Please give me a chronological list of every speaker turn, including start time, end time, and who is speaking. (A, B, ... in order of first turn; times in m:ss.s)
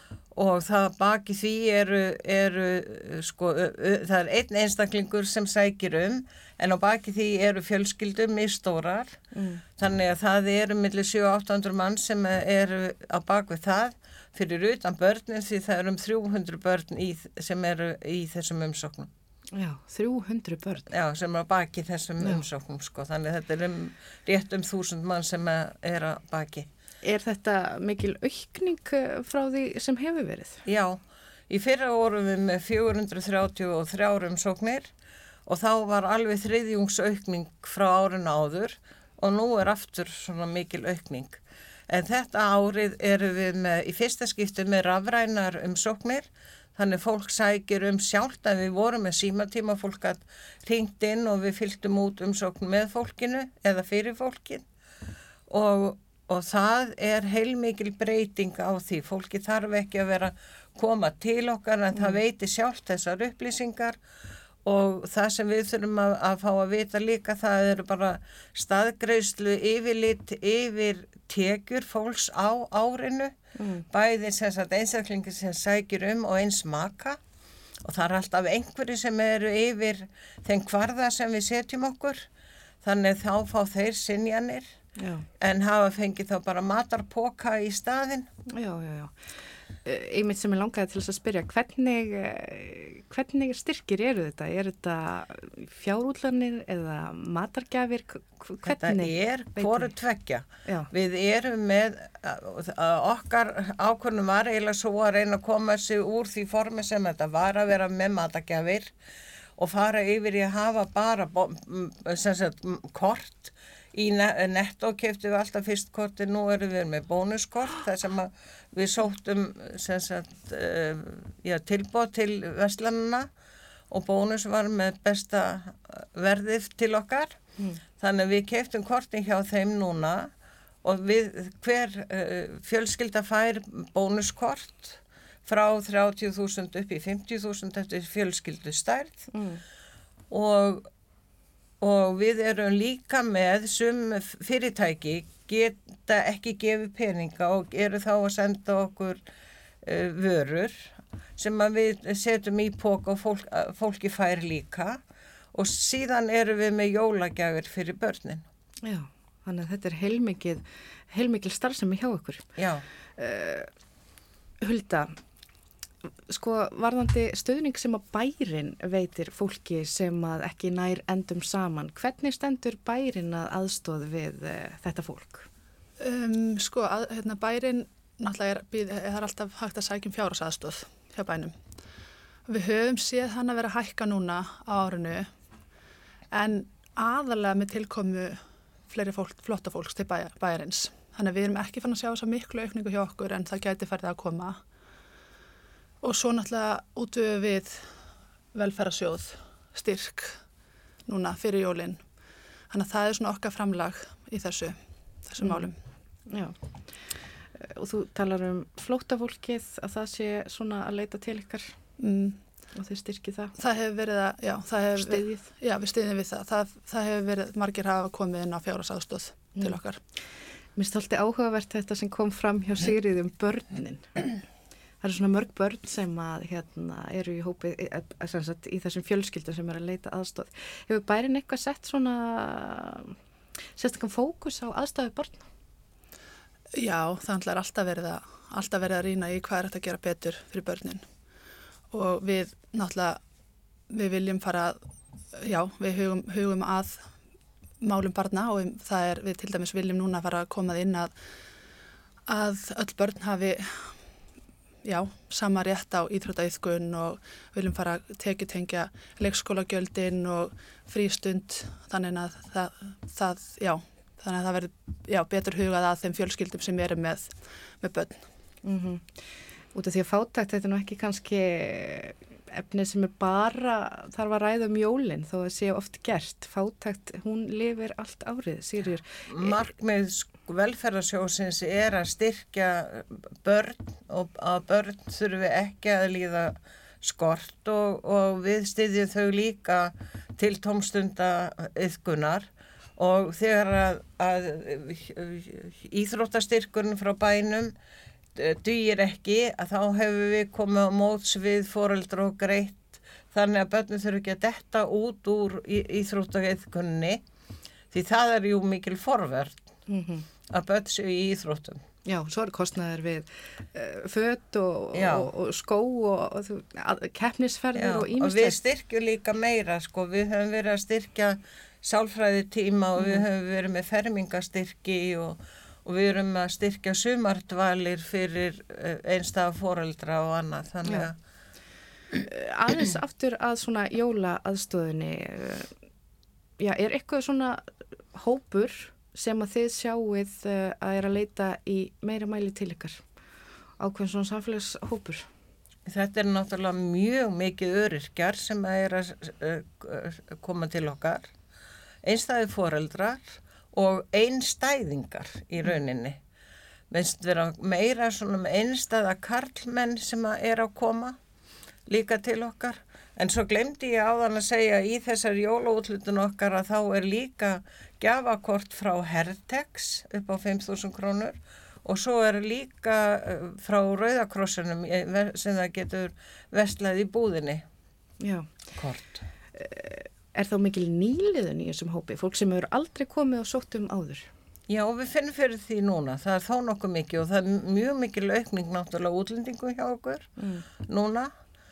0:00.3-0:09.2 A
0:09.3-0:09.6 B
0:09.8-0:19.1 A
0:19.5-0:20.9 B
0:20.9-0:26.7 A
0:27.0-0:30.6 B
0:30.6-0:34.9 A
0:35.4-0:54.6 A
0:55.5-1:04.0 A
1:01.9-1:02.2 B
1:04.6-1:13.3 A
1:13.6-1:13.8 B
1:13.9-1:17.2 A
1:17.8-1:22.3 A
1:22.8-1:24.7 A
1:25.0-1:25.2 B
1:25.4-1:28.3 A
1:28.5-1:39.9 B
1:38.6-1:48.9 A
1:40.6-1:40.9 B
1:49.6-2:03.3 A
2:03.9-2:07.4 A
2:08.0-2:10.3 A
2:10.8-2:19.3 A
2:19.3-2:19.6 B
2:20.3-2:20.9 A
2:21.8-2:29.2 A
2:29.8-2:35.0 A
2:35.5-2:38.4 A
2:38.8-2:42.5 B
2:42.6-2:42.8 A
2:43.2-2:43.7 B
2:44.6-2:45.2 B
2:46.3-2:55.5 B
2:56.0-3:01.5 C
3:02.5-3:05.3 C
3:06.3-3:14.6 C
3:16.0-3:17.9 C
3:18.5-3:20.4 C
3:21.0-3:22.0 C
3:22.7-3:25.8 C
3:25.4-3:25.7 B
3:26.3-3:31.7 B
3:32.0-3:32.4 C
3:32.7-3:33.5 B
3:33.6-3:40.0 C
3:35.0-3:35.4 B
3:39.6-3:40.2 B
3:40.7-3:44.3 B
3:45.0-3:53.1 B
3:53.8-3:55.5 B
3:56.8-4:01.0 C
4:01.9-4:03.2 C
4:03.9-4:04.8 C
4:05.4-4:07.1 C
4:07.8-4:11.1 C
4:12.3-4:14.0 C
4:14.8-4:28.2 C
4:28.6-4:39.6 B
4:39.3-4:57.7 A
4:58.3-5:07.2 A
5:07.9-5:09.6 A
5:09.9-5:10.2 B
5:10.5-5:11.8 A
5:12.0-5:18.6 B
5:14.9-5:15.3 A
5:17.7-5:31.2 A
5:23.0-5:23.2 B
5:32.2-5:35.7 B
5:36.6-5:43.1 B
5:43.8-5:45.3 B
5:45.8-5:51.3 A
5:52.0-5:56.2 A
5:56.9-6:01.2 A
6:01.9-6:17.6 A
6:18.2-6:18.7 B
6:18.8-6:19.2 A
6:19.5-6:24.3 B
6:24.7-6:30.3 A
6:30.4-6:30.6 B
6:30.8-6:31.3 A